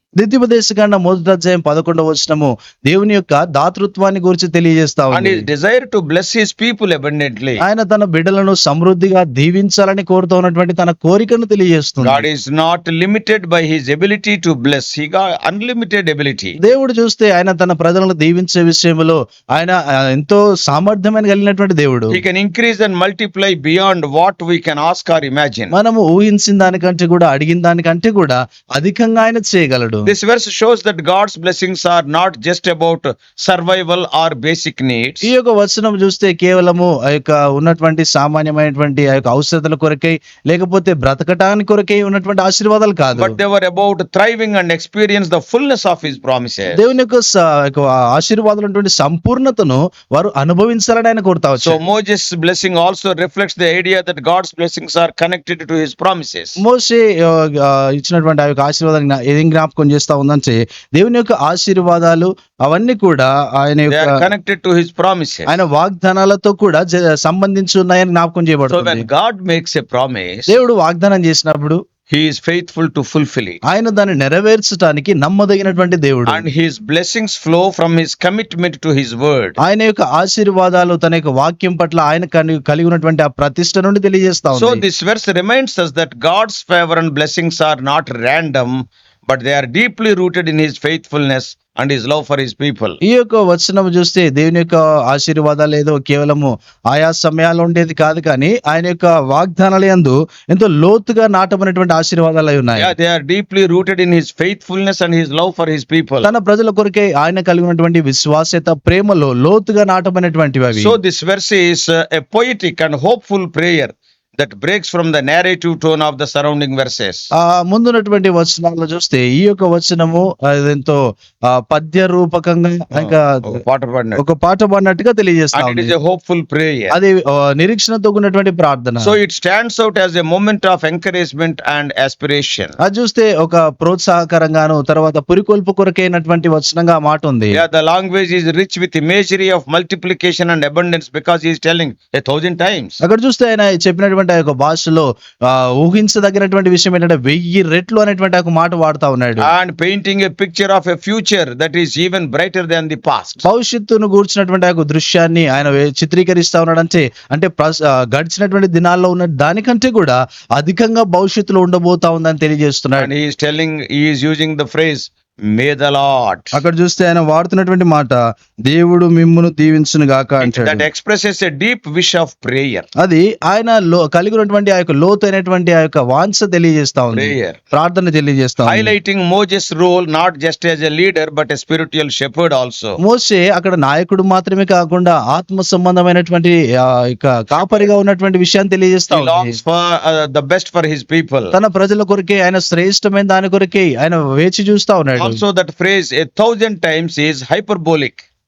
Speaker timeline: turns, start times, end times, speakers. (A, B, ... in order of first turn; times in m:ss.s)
0:00.2-0:05.4 A
0:05.1-0:07.6 B
0:07.6-0:12.3 A
0:12.0-0:16.6 B
0:16.6-0:22.2 A
0:22.1-0:25.8 B
0:25.7-0:30.1 A
0:30.0-0:35.3 B
0:35.2-0:43.4 A
0:43.1-0:46.8 B
0:46.7-0:51.8 A
0:51.6-0:56.6 B
0:56.6-1:04.2 A
1:03.9-1:05.6 B
1:05.5-1:09.1 A
1:08.7-1:10.6 B
1:10.5-1:11.8 A
1:12.1-1:13.6 B
1:13.7-1:16.5 A
1:16.3-1:19.6 B
1:19.6-1:24.8 A
1:24.5-1:33.0 B
1:33.0-1:42.9 A
1:42.8-1:46.3 B
1:46.2-1:51.0 A
1:50.7-1:57.3 B
1:57.4-2:03.6 A
2:02.9-2:04.2 B
2:04.2-2:05.9 A
2:05.6-2:07.0 B
2:06.9-2:09.2 A
2:09.0-2:12.8 B
2:12.8-2:17.6 A
2:17.5-2:23.0 B
2:23.0-2:29.5 A
2:29.4-2:33.5 B
2:33.4-2:43.1 A
2:43.0-2:46.6 B
2:46.5-2:50.9 A
2:50.4-2:52.9 B
2:53.0-2:58.9 A
2:57.1-2:57.6 B
2:58.6-3:03.0 B
3:03.0-3:09.6 A
3:07.5-3:07.9 B
3:09.1-3:11.6 B
3:11.5-3:15.4 A
3:15.2-3:18.2 B